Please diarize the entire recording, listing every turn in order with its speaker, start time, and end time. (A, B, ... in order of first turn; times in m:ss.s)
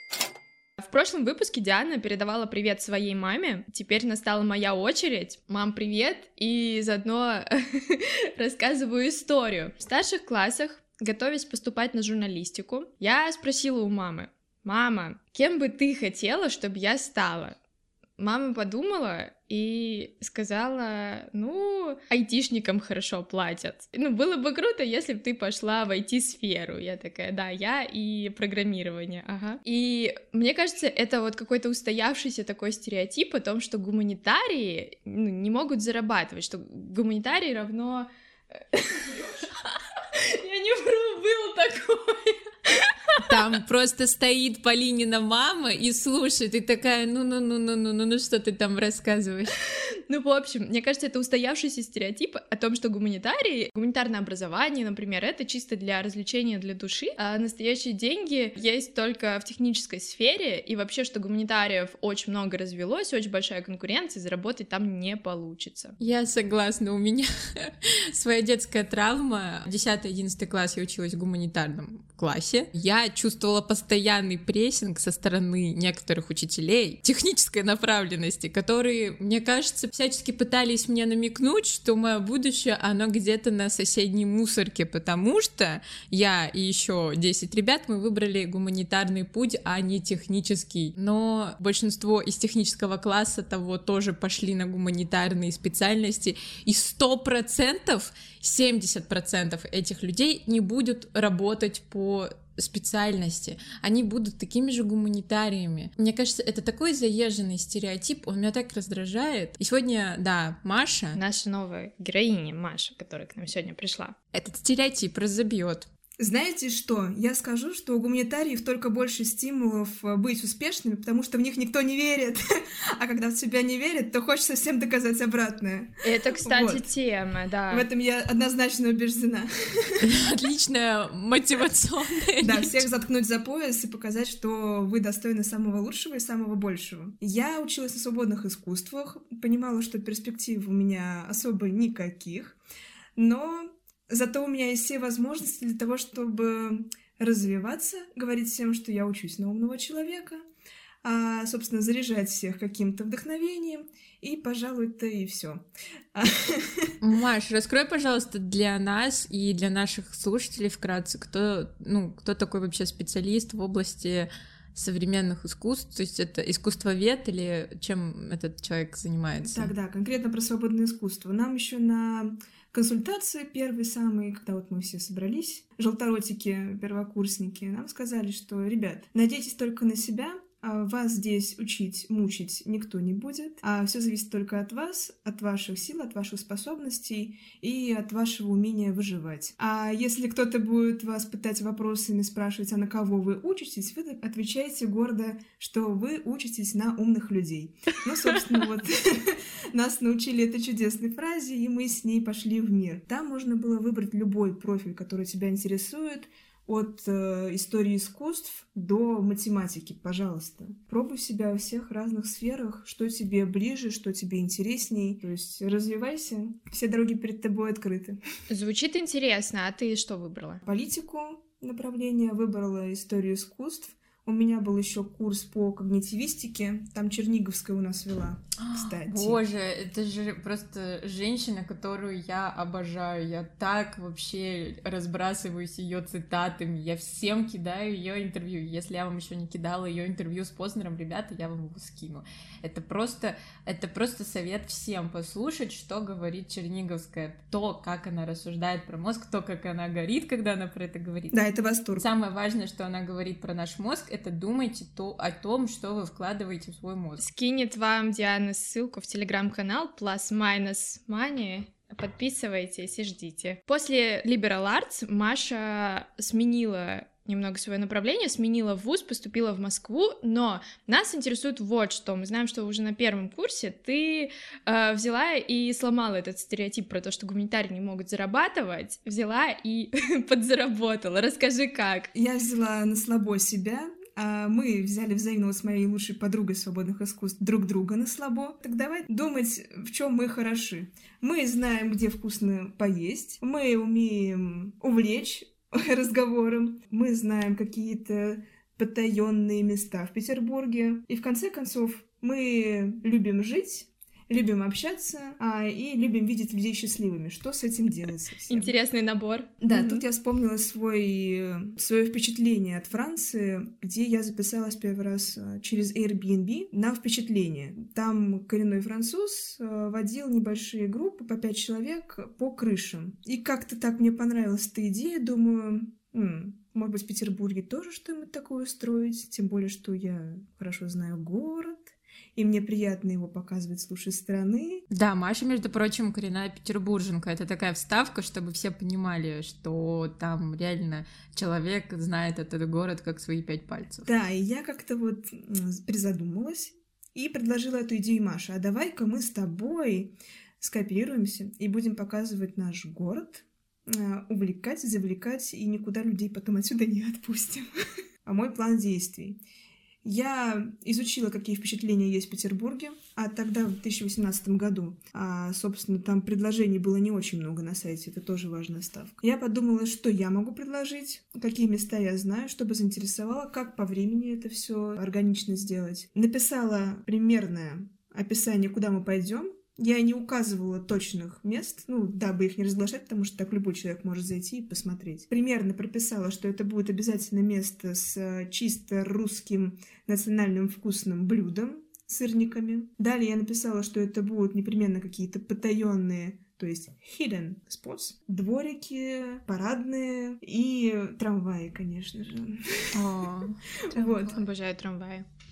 0:00.8-0:17.6 A
0:18.2-0:43.4 A
0:43.2-0:49.5 B
0:50.1-1:06.0 A
1:06.0-1:51.2 B
1:51.1-1:54.2 A
1:54.3-1:55.9 B
1:56.2-2:06.9 C
2:06.0-2:07.8 A
2:07.7-2:10.0 C
2:10.0-2:12.9 B
2:12.4-2:22.6 C
2:23.2-2:30.4 C
2:31.0-2:36.9 C
2:37.0-2:49.7 B
2:49.4-3:38.2 C
3:38.5-3:40.6 A
3:40.6-3:49.4 C
3:48.6-4:11.4 B
4:11.3-4:12.1 C
4:12.0-4:17.2 B
4:17.2-4:42.1 A
4:42.1-5:08.7 C
5:08.5-5:10.0 A
5:09.6-5:34.8 C
5:34.9-5:44.1 B
5:44.0-5:57.7 C
5:58.2-5:59.4 C
6:00.0-6:43.2 C
6:42.9-6:44.2 B
6:43.8-6:44.4 C
6:44.0-6:45.2 A